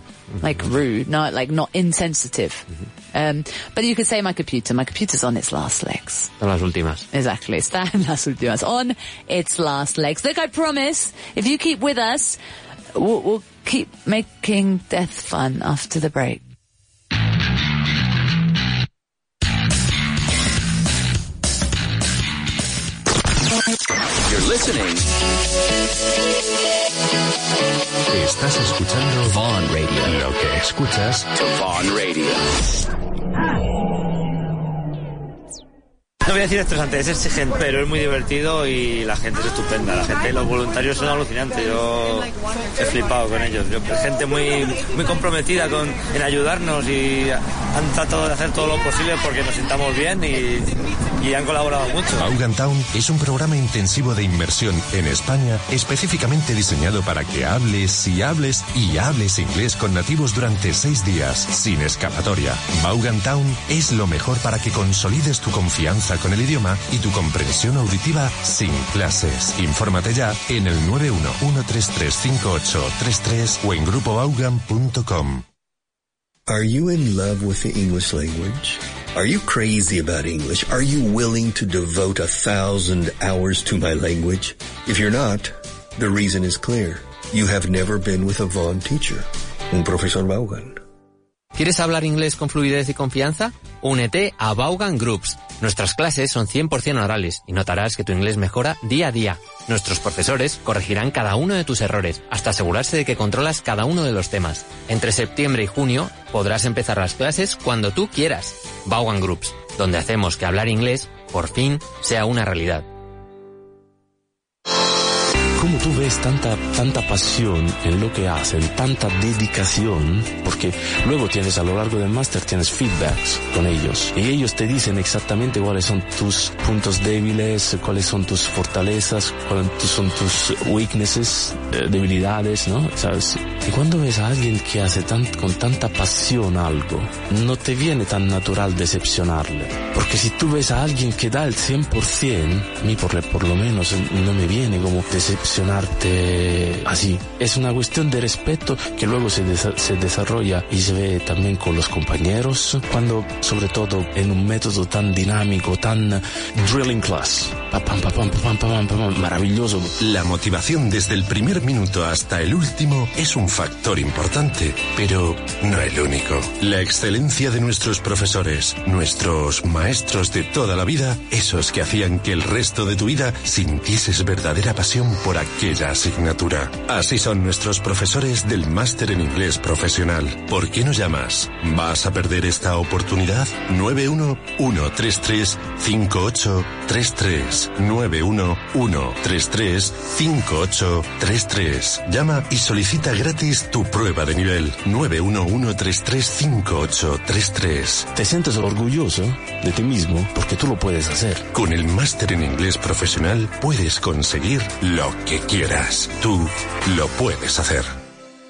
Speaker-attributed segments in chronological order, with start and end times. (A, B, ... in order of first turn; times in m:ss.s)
0:00.3-0:00.7 A
0:00.4-0:06.3 B
0:06.4-0:07.1 A
0:07.1-0:12.4 B
0:12.9-0:16.4 B
0:24.2-0:25.1 C
0:28.2-0:29.1 D
0:29.4-0:30.1 C
0:30.0-0:31.2 D
0:31.4-0:32.4 C
0:36.2-0:52.3 E
0:52.1-1:15.4 D
1:16.5-1:30.8 F
1:31.5-1:52.9 A
1:55.6-2:40.0 G
2:40.0-3:18.1 D
3:18.1-3:21.5 G
3:21.5-3:27.9 D